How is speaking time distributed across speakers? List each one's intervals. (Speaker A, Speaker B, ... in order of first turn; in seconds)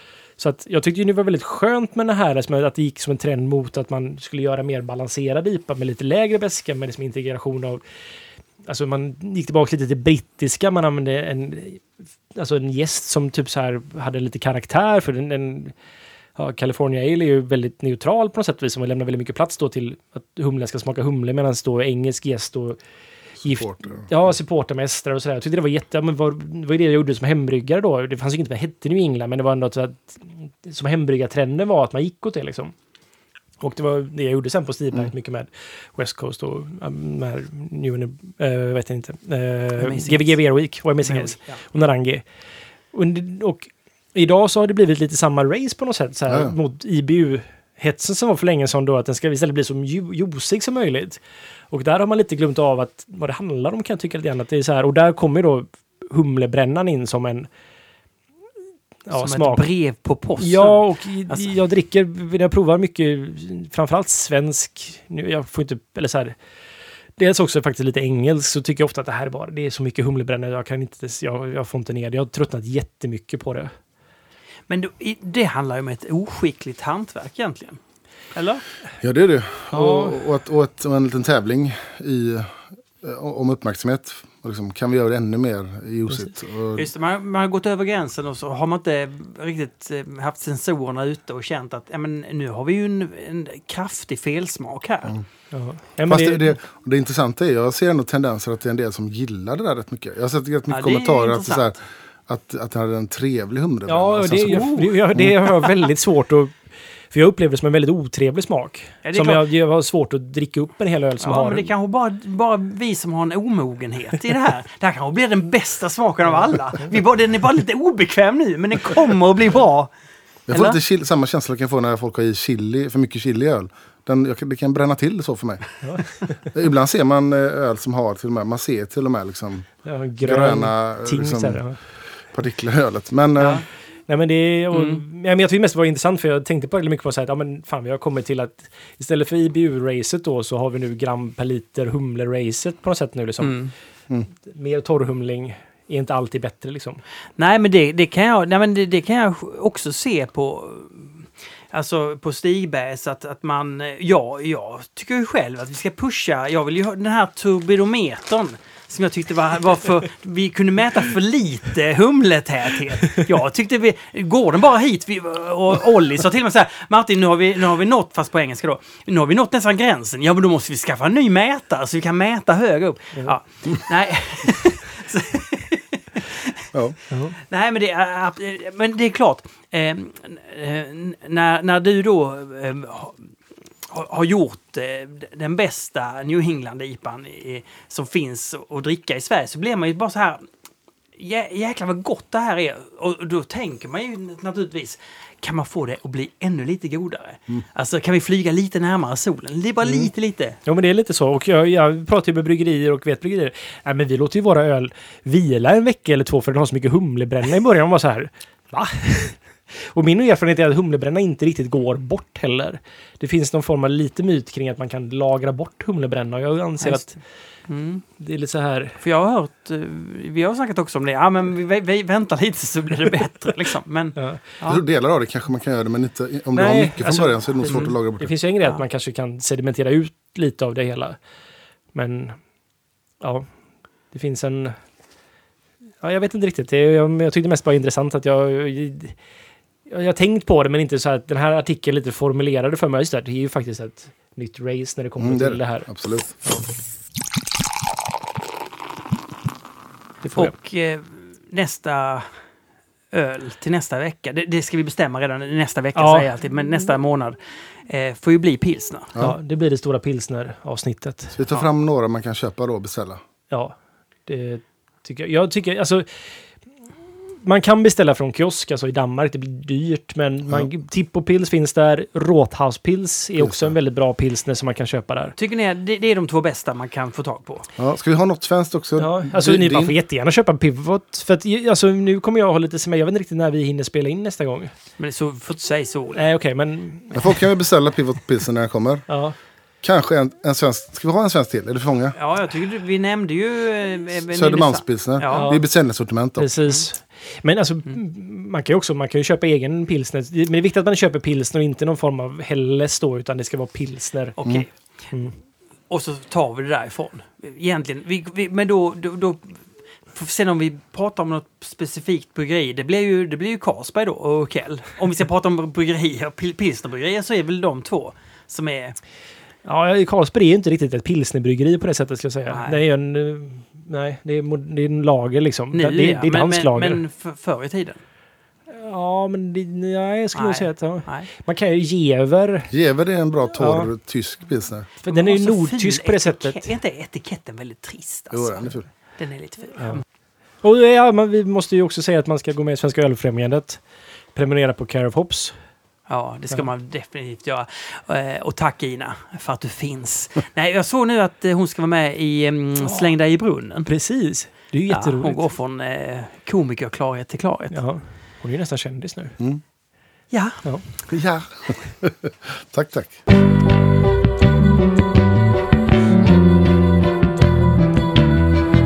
Speaker A: 0.4-7.8, 8.6-11.8, 12.3-15.7, 16.4-22.8, 23.4-32.7, 33.6-42.2, 42.9-57.5, 59.1-59.7, 60.4-66.3, 67.2-73.7, 79.7-80.2, 95.5-96.6, 103.8-106.5, 107.1-111.7, 125.8-126.3, 129.8-131.8, 133.4-143.7, 144.4-147.0, 177.1-177.3, 200.6-217.2, 218.2-219.0, 226.5-231.2, 231.9-232.4, 233.2-233.5, 234.1-234.8, 236.0-239.2, 239.9-245.9, 250.2-250.5, 255.9-256.3, 259.2-261.4, 263.5-266.4, 267.4-275.4, 279.0-284.7, 286.1-287.4, 289.1-289.4, 295.3-295.6, 296.4-304.4, 319.6-327.0, 328.7-332.7, 333.6-333.9, 335.0-336.7, 340.6-343.8, 344.3-345.5, 353.9-355.4, 357.7-359.4, 360.6-360.9
Speaker B: 23.6-24.1, 79.0-86.8, 96.1-105.3, 120.5-125.7, 126.5-131.6, 132.3-133.6, 224.7-228.3, 245.2-246.4, 261.3-263.2, 273.4-273.7, 277.8-279.9, 287.1-289.1, 289.8-292.1, 294.3-296.5, 332.7-334.9, 338.3-338.9, 361.1-363.2
Speaker C: 39.8-40.4, 41.0-41.6, 59.1-61.5, 74.7-77.8, 78.3-78.6, 86.7-95.1, 100.7-101.7, 104.5-104.9, 109.0-109.4, 111.2-119.9, 120.5-120.8, 134.7-135.0, 143.4-143.7, 147.4-176.7, 177.3-183.3, 183.8-190.4, 191.2-200.6, 216.8-217.2, 217.7-218.0, 219.0-224.8, 227.7-227.9, 250.3-252.4, 253.1-259.1, 275.4-277.7, 285.0-286.3, 292.1-295.5, 304.4-304.7, 305.9-319.0, 322.5-322.8, 325.7-328.0, 330.3-331.3, 335.1-340.0, 346.1-353.9, 354.9-357.8, 360.3-360.6